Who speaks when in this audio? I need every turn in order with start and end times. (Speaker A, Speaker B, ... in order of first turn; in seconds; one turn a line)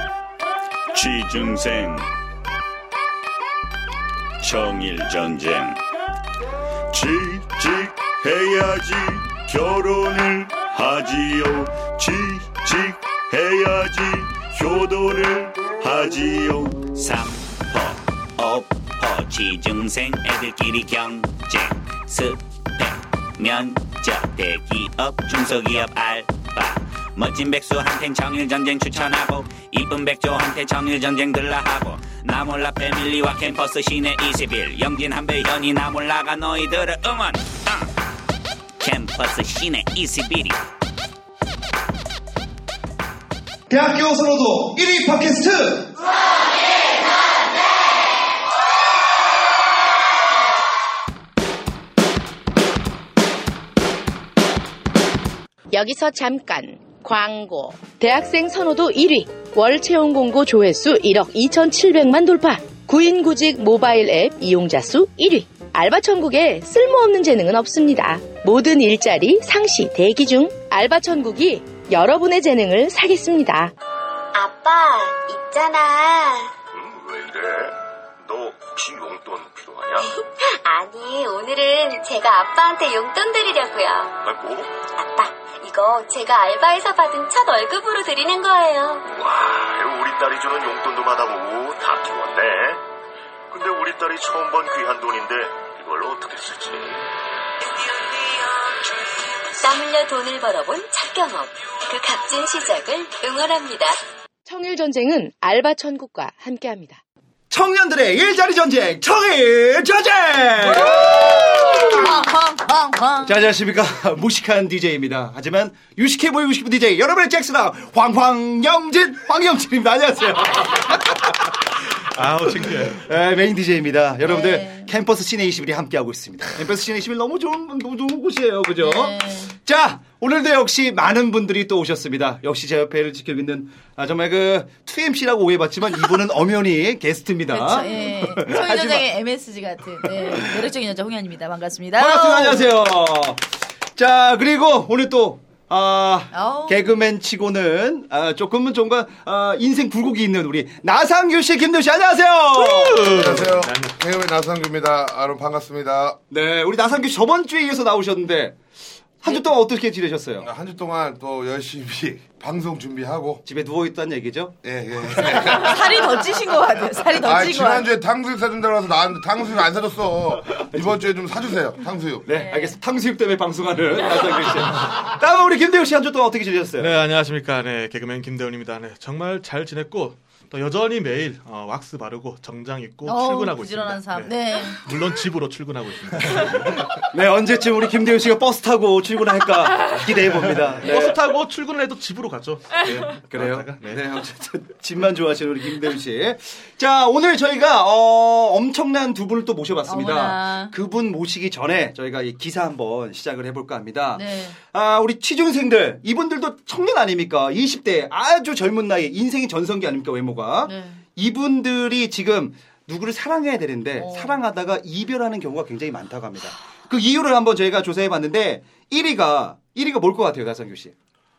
Speaker A: 0.9-2.1
Speaker A: 4.4-5.8
Speaker A: 6.9-17.0
Speaker B: 17.0-37.9
Speaker B: 38.8-40.6
Speaker C: 43.7-45.9
Speaker D: 55.7-73.7
Speaker E: 74.3-76.5
Speaker F: 76.7-80.1
Speaker E: 80.1-84.2
Speaker F: 84.2-84.7
Speaker E: 84.9-89.0
Speaker F: 89.1-92.8
Speaker F: 93.5-97.1
Speaker E: 99.6-104.0
Speaker D: 104.5-107.0
Speaker C: 107.5-112.2
Speaker G: 110.6-113.4
Speaker C: 113.2-121.6
Speaker H: 122.1-123.1
Speaker C: 122.2-139.1
Speaker G: 124.2-124.9
Speaker G: 128.8-129.5
Speaker G: 137.5-142.7
Speaker C: 140.0-140.7
Speaker C: 142.0-153.4
Speaker G: 146.3-147.0
Speaker H: 152.5-154.0
Speaker I: 153.1-156.2
Speaker C: 156.3-158.6
Speaker C: 159.2-160.5
Speaker I: 160.4-163.4
Speaker C: 163.4-164.6
Speaker I: 164.6-166.2
Speaker C: 165.2-165.6
Speaker G: 165.5-167.9
Speaker I: 167.2-172.3
Speaker C: 170.7-171.1
Speaker C: 172.3-176.9
Speaker G: 172.4-172.8
Speaker H: 176.8-187.0
Speaker G: 183.1-184.8
Speaker C: 187.1-191.2
Speaker H: 190.3-194.1
Speaker C: 193.2-220.9
Speaker G: 199.9-200.7
Speaker G: 204.2-204.6
Speaker G: 210.7-211.0
Speaker G: 214.0-214.4